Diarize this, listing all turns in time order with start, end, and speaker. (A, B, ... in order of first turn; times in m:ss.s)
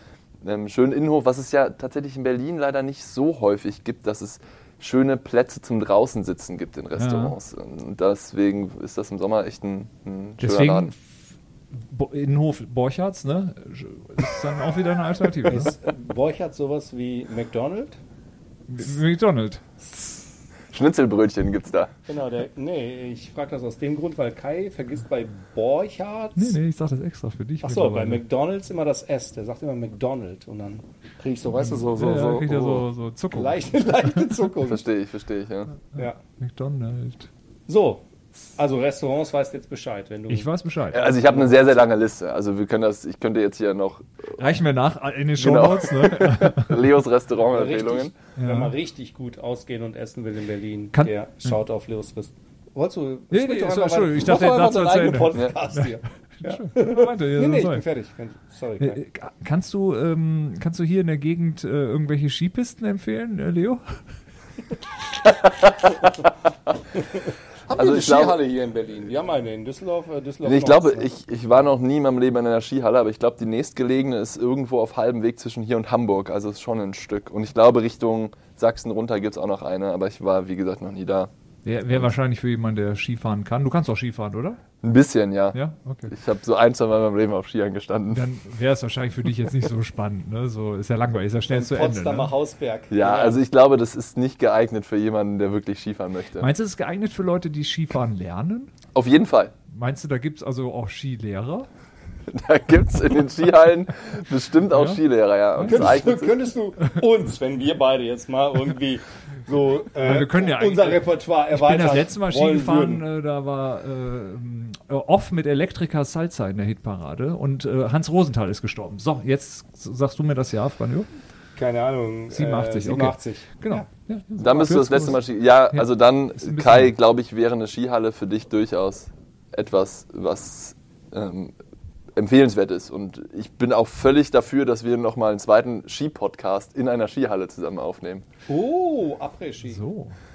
0:00.4-0:10.9 A
0:07.0-0:07.3 B
0:10.4-0:11.0 B
0:11.7-0:15.7 B
0:15.4-0:18.0 C
0:18.7-0:19.6 B
0:20.7-0:21.9 A
0:22.1-0:26.6 C
0:26.4-0:28.2 B
0:27.6-0:34.8 C
0:31.6-0:34.3 B
0:34.6-0:35.7 A
0:35.9-0:37.3 B
0:37.7-0:38.0 C
0:38.6-0:41.8 C
0:40.3-0:41.0 B
0:40.9-0:44.4 A
0:44.4-0:46.7 B
0:45.4-0:48.1 A
0:47.5-0:59.0 C
0:48.4-0:48.7 B
0:50.9-0:51.6 B
0:53.3-0:57.8 B
0:58.8-1:04.0 B
1:05.4-1:05.7 A
1:07.7-1:11.1 C
1:07.7-1:08.4 A
1:10.4-1:21.3 A
1:21.6-1:24.6 B
1:24.8-1:25.6 A
1:25.5-1:26.1 B
1:26.1-1:28.2 A
1:28.1-1:32.3 B
1:31.5-1:33.4 C
1:32.9-1:36.5 A
1:36.4-1:38.7 B
1:38.9-1:39.5 A
1:39.7-1:41.7 B
1:42.3-1:46.3 A
1:44.7-1:45.0 B
1:45.5-1:45.8 B
1:45.7-1:53.0 C
1:50.0-2:01.1 B
2:01.6-2:03.8 C
2:02.3-2:05.2 B
2:04.4-2:11.5 A
2:05.7-2:06.9 B
2:12.2-2:18.2 A
2:18.5-2:19.8 C
2:19.6-2:20.1 B